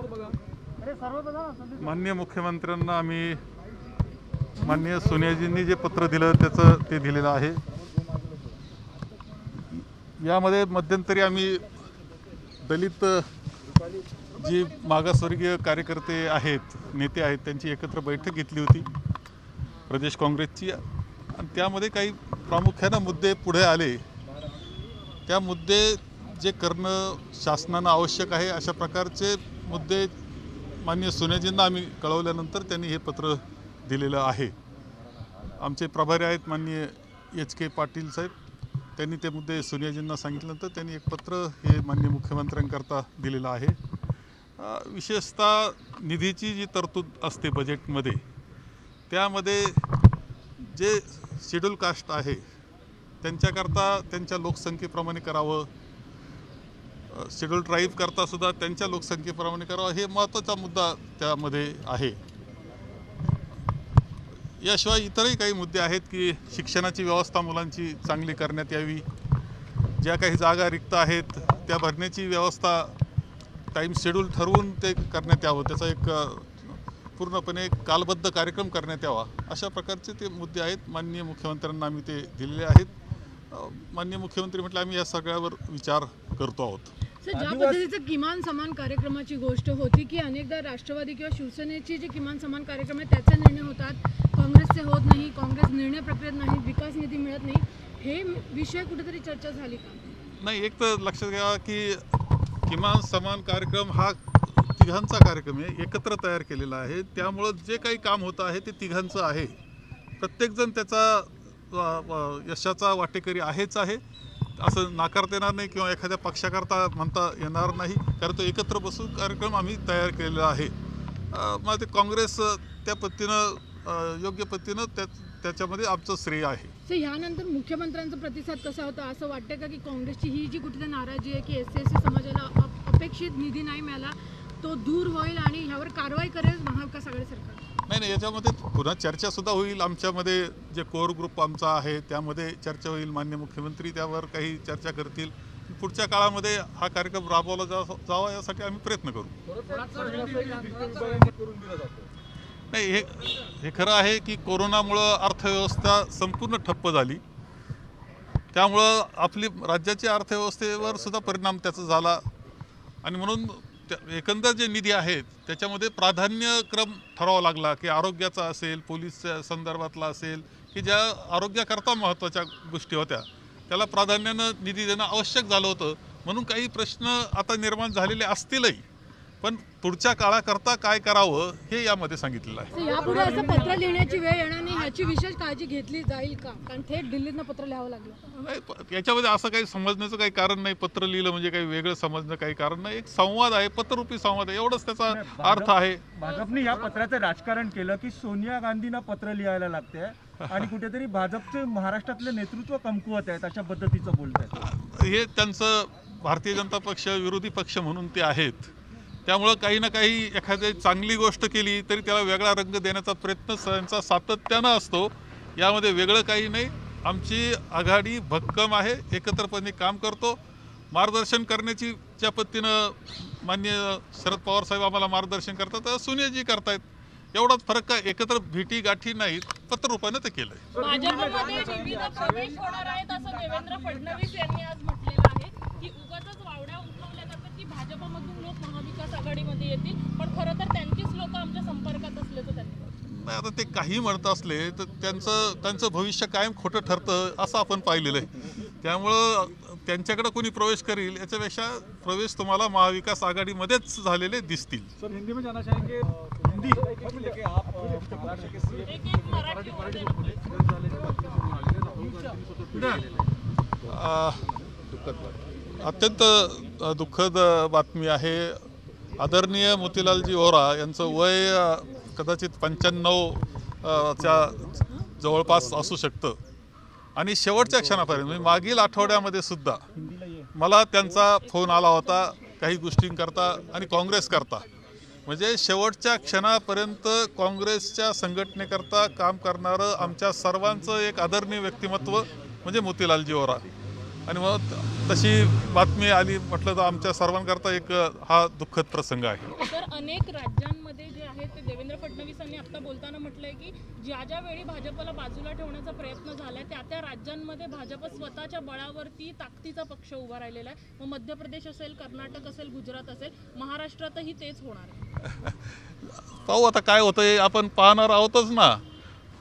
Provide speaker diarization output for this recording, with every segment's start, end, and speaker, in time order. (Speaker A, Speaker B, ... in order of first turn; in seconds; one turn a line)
Speaker A: 1.1-1.6
Speaker B: 1.8-3.4
Speaker B: 4.6-7.6
Speaker B: 9.7-11.7
Speaker B: 12.6-13.3
Speaker B: 14.3-18.9
Speaker B: 19.9-20.8
Speaker B: 21.3-24.0
Speaker B: 25.3-30.1
Speaker B: 30.8-34.5
Speaker B: 35.6-38.3
Speaker B: 39.0-43.8
Speaker B: 44.6-48.2
Speaker B: 49.1-49.8
Speaker B: 50.6-52.4
Speaker B: 53.2-55.7
Speaker B: 57.1-62.2
Speaker B: 64.6-69.0
Speaker B: 70.0-73.0
Speaker B: 73.7-82.9
Speaker B: 83.5-86.9
Speaker C: 87.2-100.0
Speaker B: 100.2-102.0
Speaker B: 102.7-109.5
Speaker B: 110.2-114.0
Speaker B: 114.6-120.7
Speaker B: 121.3-126.7
Speaker C: 126.8-137.6
Speaker B: 137.9-149.3
Speaker D: 149.9-151.2
Speaker B: 152.7-157.2
Speaker B: 158.5-162.2
Speaker B: 163.0-178.8
Speaker B: 179.4-182.7
Speaker C: 182.7-188.2
Speaker D: 182.8-184.9
Speaker B: 188.3-196.2
Speaker A: 195.1-204.5
Speaker B: 200.4-200.7
Speaker B: 204.5-208.7
Speaker B: 209.2-220.4
Speaker B: 220.9-226.8
Speaker B: 227.3-230.9
Speaker D: 230.7-234.2
Speaker E: 230.8-242.9
Speaker B: 243.0-254.9
Speaker D: 255.0-258.9
Speaker E: 258.8-260.6
Speaker D: 261.1-263.0
Speaker B: 263.8-264.4
Speaker B: 265.8-276.4
Speaker B: 277.1-279.9
Speaker A: 280.1-280.4
Speaker B: 280.5-284.7
Speaker E: 281.7-282.4
Speaker B: 285.2-293.6
Speaker B: 294.3-299.5
Speaker E: 299.6-315.2
Speaker B: 315.2-318.8